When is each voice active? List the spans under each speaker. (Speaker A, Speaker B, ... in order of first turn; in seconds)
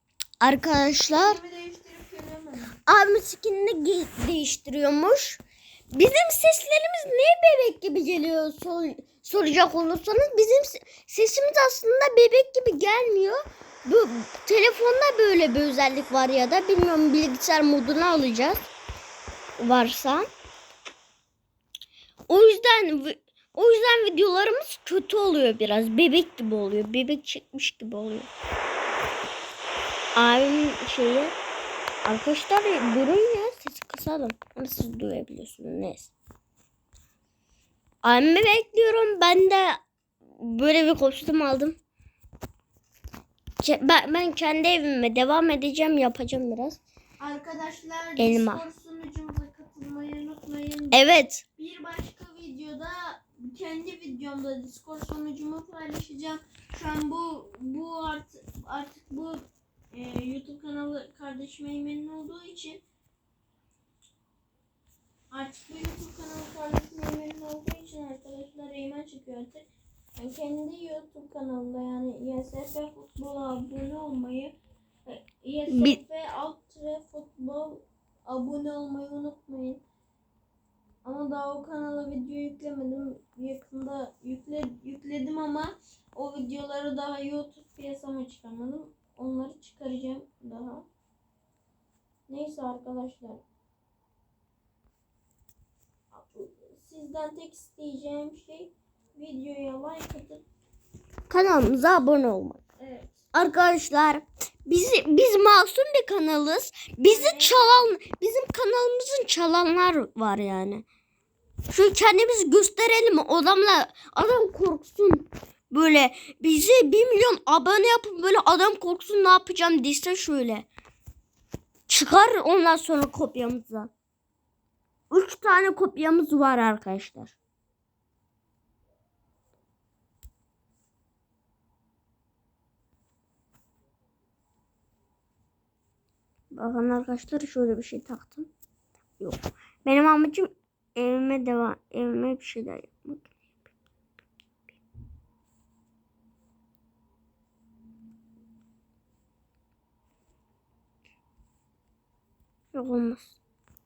Speaker A: 0.4-1.4, 2.9-18.7, 19.6-20.3, 22.3-28.3, 30.2-31.4, 32.0-36.1, 38.0-39.8, 40.4-41.8, 43.6-46.8, 48.2-48.6, 50.9-51.4, 75.7-76.0, 101.3-102.6, 103.3-110.8, 111.7-120.7, 121.9-123.9, 125.1-127.3, 136.5-138.5, 139.2-143.3, 152.7-153.4
Speaker B: 1.1-2.8, 47.2-51.0, 51.6-62.8, 65.3-69.7, 70.2-74.5, 75.1-79.8, 81.0-90.9, 92.3-93.4, 96.1-100.4, 102.8-103.3, 107.0-108.0